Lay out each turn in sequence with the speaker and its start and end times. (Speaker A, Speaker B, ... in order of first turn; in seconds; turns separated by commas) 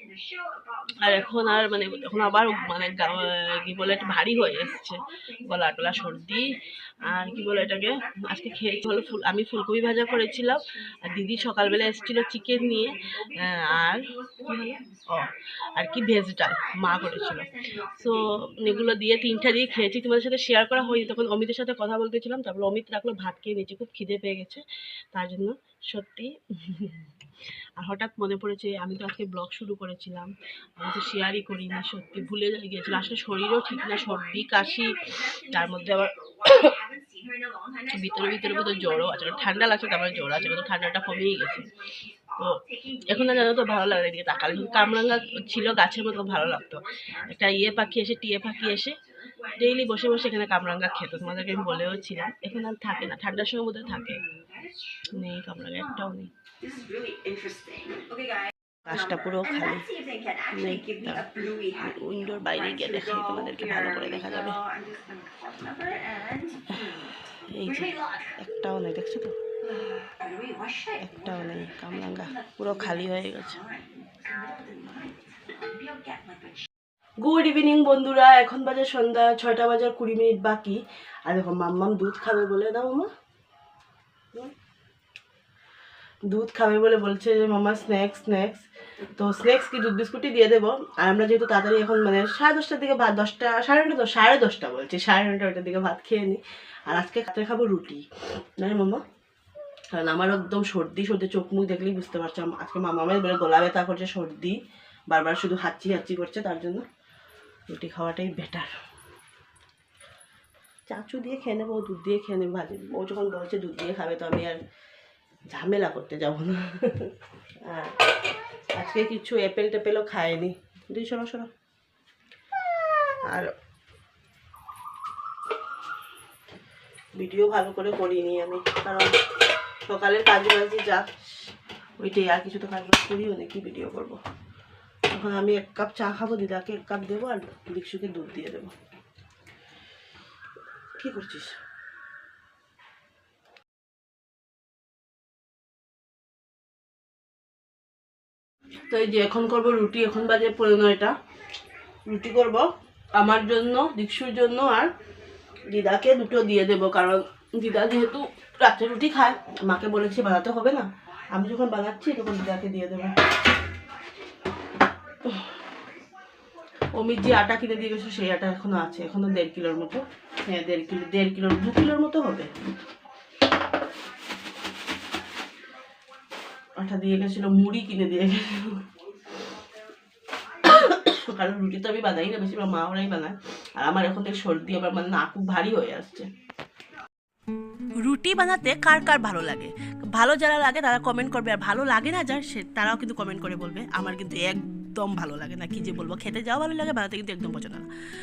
Speaker A: 1.0-27.1, Speaker A: 27.8-36.8, Speaker A: 37.9-41.7, Speaker A: 42.4-49.0, Speaker A: 49.5-54.2, Speaker A: 55.1-56.3, Speaker B: 56.7-58.2, Speaker A: 58.9-59.9, Speaker A: 60.5-64.7, Speaker B: 64.7-66.6, Speaker A: 66.7-69.3, Speaker B: 70.2-70.9, Speaker A: 71.0-73.6, Speaker B: 74.2-75.1, Speaker A: 77.2-83.1, Speaker A: 86.3-98.0, Speaker A: 98.6-99.0, Speaker A: 99.9-106.9, Speaker A: 107.7-108.7, Speaker A: 110.9-114.6, Speaker A: 115.5-118.0, Speaker A: 118.7-121.5, Speaker A: 127.2-129.2, Speaker A: 129.9-134.2, Speaker A: 135.1-138.8, Speaker A: 141.0-141.6, Speaker A: 148.9-151.2, Speaker A: 152.1-154.9, Speaker A: 155.7-163.2, Speaker A: 167.0-172.5, Speaker A: 176.8-178.8, Speaker A: 180.6-186.3, Speaker A: 188.0-197.9